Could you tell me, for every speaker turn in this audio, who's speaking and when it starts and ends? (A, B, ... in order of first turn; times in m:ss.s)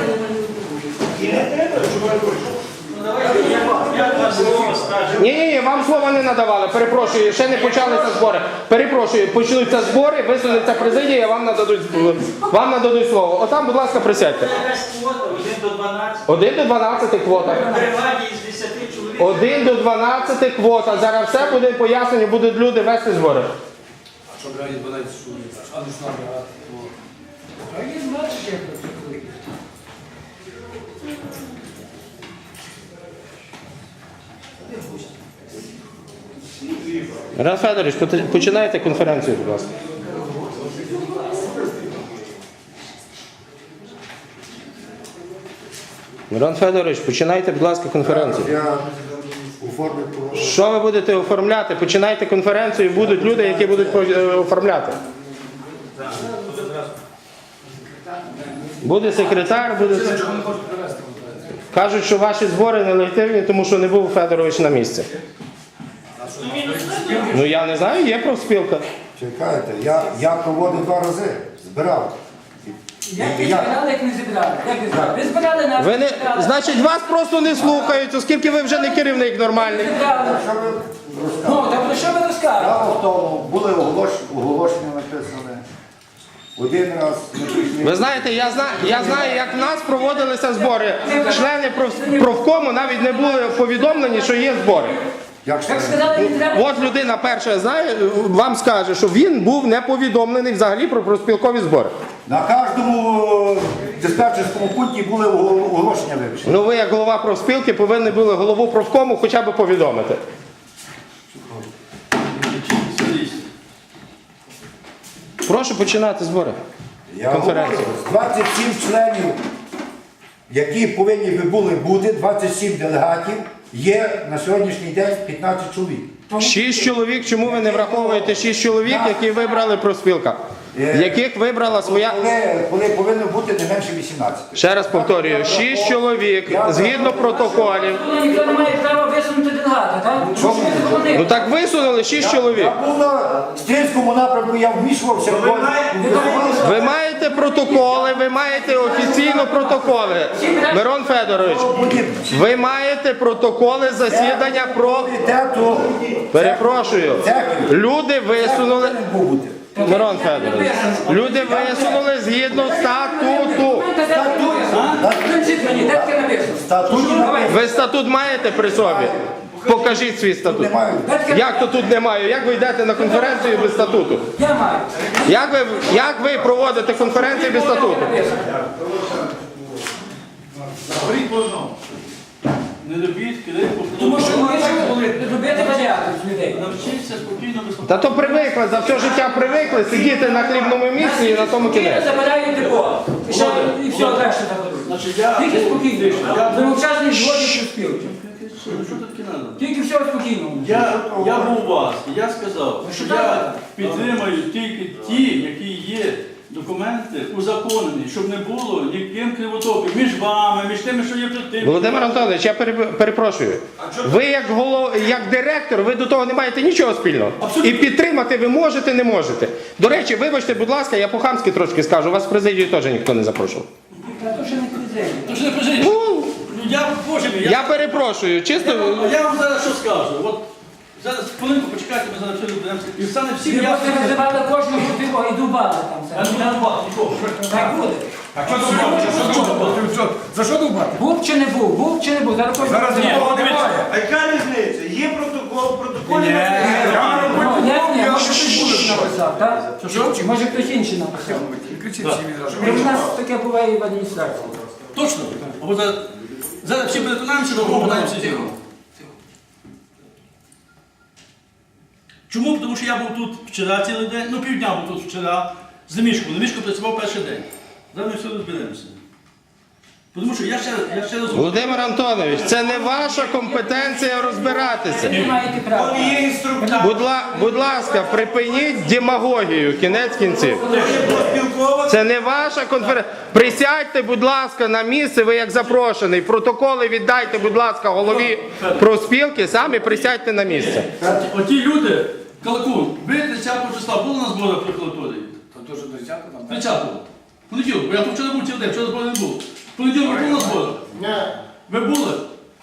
0:01.1-0:05.2 A
0:03.2-0:05.1 B
0:05.2-0:14.5 C
0:14.5-0:16.3 A
0:16.3-0:17.9 C
0:17.7-0:19.3 A
0:19.2-0:23.5 C
0:24.3-0:26.9 D
0:27.7-0:29.2 E
0:37.4-0:39.7 C
0:46.3-0:48.5 C
0:48.0-0:50.6 F
0:50.3-0:55.0 C
0:53.0-0:54.1 F
0:58.8-1:00.3 C
0:59.9-1:01.5 D
1:01.7-1:05.1 C
1:06.2-1:07.1 D
1:06.4-1:07.3 A
1:07.3-1:08.8 C
1:09.2-1:13.8 F
1:13.1-1:18.0 E
1:14.9-1:15.3 F
1:15.8-1:20.0 C
1:19.5-1:20.4 E
1:20.0-1:25.6 F
1:21.4-1:22.9 E
1:26.6-1:29.4 F
1:27.8-1:35.0 C
1:30.6-1:35.1 E
1:35.4-1:36.3 F
1:35.7-1:36.9 E
1:36.3-1:41.9 C
1:42.2-1:46.6 F
1:46.4-1:50.2 C
1:51.3-1:51.6 F
1:52.3-1:53.5 B
1:55.4-1:56.6 C
1:57.1-1:59.4 F
1:57.3-1:57.9 C
2:00.5-2:06.2 F
2:06.3-2:06.9 E
2:06.4-2:10.4 C
2:07.4-2:09.3 F
2:10.7-2:11.2 F
2:10.9-2:12.2 C
2:11.8-2:17.8 F
2:14.5-2:18.0 C
2:17.5-2:21.3 E
2:20.3-2:21.3 F
2:21.1-2:22.7 C
2:22.1-2:26.9 F
2:25.2-2:26.9 A
2:26.0-2:30.9 E
2:26.6-2:35.1 C
2:31.3-2:32.5 F
2:34.1-2:37.8 F
2:36.3-2:39.0 C
2:38.3-2:39.7 F
2:39.7-2:41.8 E
2:39.8-2:43.9 C
2:41.1-2:41.9 B
2:41.3-2:43.0 F
2:42.6-2:47.6 E
2:44.0-2:47.8 F
2:44.7-2:45.0 B
2:47.5-2:50.7 C
2:48.4-2:51.1 F
2:51.0-2:51.8 E
2:51.3-2:54.3 C
2:53.0-2:55.2 E
2:55.2-2:58.2 C
2:57.0-2:58.5 E
2:58.6-2:59.2 A
3:00.8-3:01.7 D
3:02.8-3:05.0 B
3:04.0-3:06.7 E
3:06.5-3:08.9 B
3:07.8-3:12.1 C
3:10.9-3:18.1 E
3:13.2-3:14.3 B
3:14.8-3:17.3 B
3:18.0-3:19.6 B
3:19.6-3:20.9 E
3:20.6-3:21.6 F
3:20.6-3:32.3 B
3:22.8-3:23.7 E
3:31.6-3:43.7 C
3:37.4-3:37.9 B
3:44.1-3:45.4 E
3:45.2-3:48.0 B
3:45.8-3:46.4 C
3:47.4-3:49.1 C
3:48.6-3:54.2 B
3:53.4-3:56.7 E
3:56.1-3:57.3 B
3:57.2-3:57.8 D
3:57.4-3:58.1 E
3:58.3-4:01.0 D
3:58.4-3:59.8 B
4:00.9-4:03.3 E
4:02.6-4:03.9 D
4:03.0-4:03.8 B
4:03.4-4:07.4 A
4:06.1-4:10.2 D
4:06.4-4:07.5 B
4:07.3-4:11.7 E
4:09.8-4:10.2 B
4:11.2-4:13.0 D
4:12.5-4:14.6 E
4:12.5-4:13.1 A
4:14.9-4:18.5 B
4:17.6-4:18.5 D
4:22.3-4:29.0 B
4:30.1-4:32.5 B
4:31.3-4:35.2 C
4:35.0-4:37.0 E
4:35.0-4:35.4 B
4:35.7-4:38.7 A
4:36.8-4:40.6 C
4:40.5-4:42.0 A
4:41.8-4:50.9 C
4:48.0-4:48.8 B
4:50.4-4:55.4 B
4:51.0-4:51.3 F
4:55.5-4:56.8 D
4:56.5-5:00.8 B
4:59.9-5:00.7 D
5:01.0-5:01.3 A
5:01.7-5:02.3 B